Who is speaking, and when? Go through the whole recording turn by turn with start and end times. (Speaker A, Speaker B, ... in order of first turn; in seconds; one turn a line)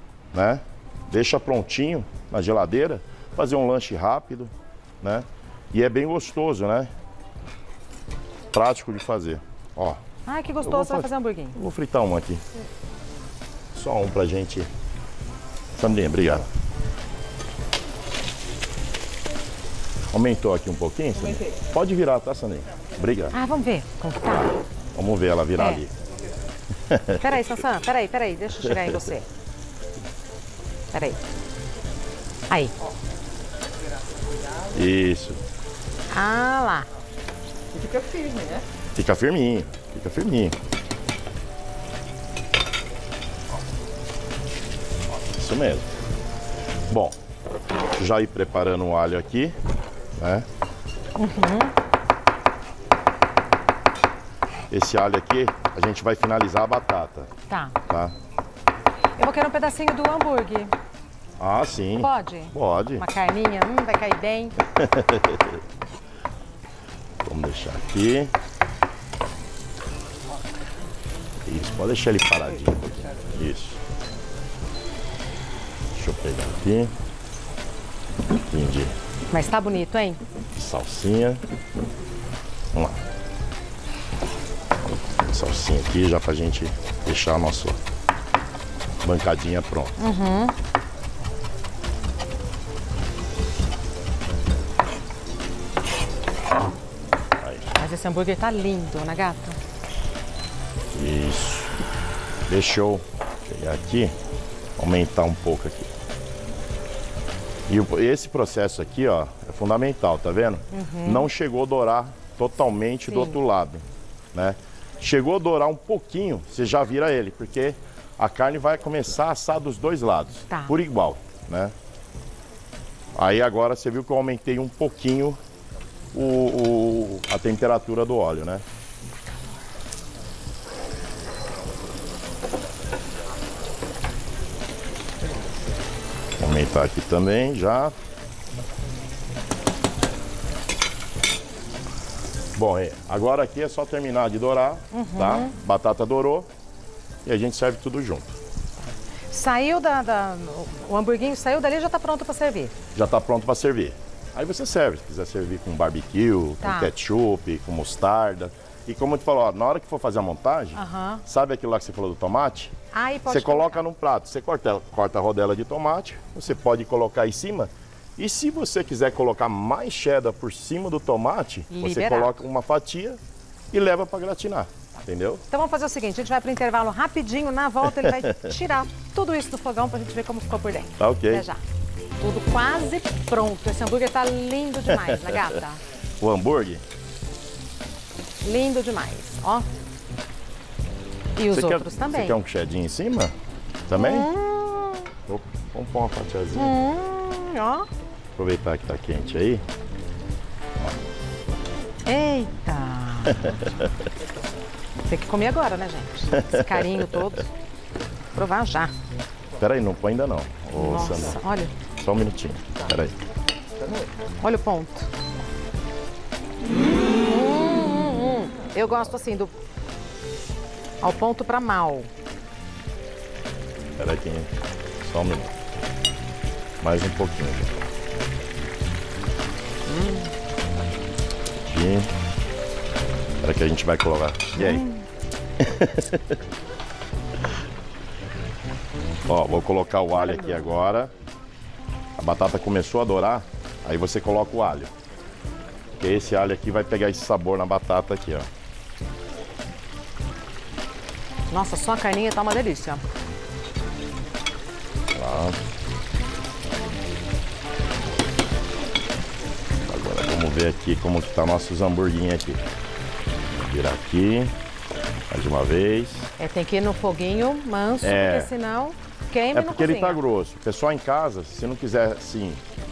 Speaker A: 0.3-6.9
Speaker A: 8.5-10.0
Speaker B: 10.3-11.6
Speaker A: 10.6-12.4
Speaker A: 13.7-14.7
Speaker A: 15.8-16.5
Speaker A: 20.1-23.3
Speaker B: 23.3-24.5
Speaker A: 24.9-25.9
Speaker B: 25.5-25.8
Speaker A: 26.9-27.4
Speaker B: 27.2-29.2
Speaker B: 30.9-31.2
Speaker A: 34.7-35.4
Speaker B: 36.1-36.9
Speaker A: 39.0-40.5
Speaker A: 45.3-45.9
Speaker A: 46.9-47.2
Speaker A: 47.9-49.5
Speaker A: 50.2-50.5
Speaker B: 51.2-51.7
Speaker A: 54.7-57.3
Speaker B: 57.5-57.8
Speaker A: 57.9-58.1
Speaker B: 59.2-60.7
Speaker A: 61.4-63.0
Speaker B: 62.0-64.5
Speaker A: 64.7-65.6
Speaker A: 67.2-68.3
Speaker A: 71.4-73.8
Speaker A: 75.9-76.9
Speaker A: 78.5-78.9
Speaker B: 79.3-80.2
Speaker A: 80.5-81.4
Speaker A: 82.7-83.0
Speaker A: 84.9-87.8
Speaker A: 89.0-89.9
Speaker B: 90.0-90.5
Speaker A: 97.4-97.7
Speaker B: 97.7-99.6
Speaker A: 100.9-101.7
Speaker A: 102.5-104.1
Speaker A: 104.8-105.9
Speaker A: 107.7-121.7
Speaker B: 110.7-111.3
Speaker B: 113.1-113.4
Speaker B: 120.5-120.8
Speaker A: 123.2-125.4
Speaker A: 126.1-128.6
Speaker A: 136.4-137.9
Speaker A: 142.6-146.5
Speaker B: 144.9-145.5
Speaker A: 147.2-148.4
Speaker B: 149.3-152.7
Speaker A: 152.9-162.7
Speaker B: 156.6-156.9
Speaker B: 160.7-161.2
Speaker B: 162.9-163.8
Speaker A: 163.3-173.2
Speaker B: 171.7-172.4
Speaker A: 173.7-175.4
Speaker B: 175.5-181.6
Speaker A: 177.8-178.5
Speaker A: 181.0-181.4
Speaker B: 182.2-185.8
Speaker A: 184.9-185.5
Speaker A: 186.2-186.8
Speaker B: 188.4-189.7
Speaker B: 191.3-192.4
Speaker A: 191.5-193.3
Speaker A: 193.9-194.3
Speaker B: 193.9-195.1
Speaker A: 195.3-196.8
Speaker B: 196.6-197.8
Speaker A: 198.4-199.6
Speaker B: 202.1-203.7
Speaker B: 205.1-207.5
Speaker A: 206.3-207.2
Speaker B: 208.3-208.9
Speaker A: 209.6-211.4
Speaker B: 210.7-211.7
Speaker A: 212.0-213.2
Speaker B: 214.4-215.1
Speaker B: 217.2-219.5
Speaker B: 221.0-222.1
Speaker A: 224.0-224.5
Speaker A: 225.0-225.6
Speaker A: 226.8-227.8
Speaker B: 229.9-230.3
Speaker A: 231.7-232.1
Speaker A: 233.4-234.9
Speaker B: 234.6-234.9
Speaker A: 235.6-236.3
Speaker A: 239.2-241.1
Speaker B: 240.2-240.7
Speaker A: 242.2-244.9
Speaker A: 246.0-248.5
Speaker B: 251.5-253.0
Speaker A: 255.1-255.6
Speaker A: 259.8-262.6
Speaker A: 263.6-264.5
Speaker A: 265.3-266.3
Speaker B: 266.4-270.2
Speaker A: 268.0-268.5
Speaker A: 269.5-272.6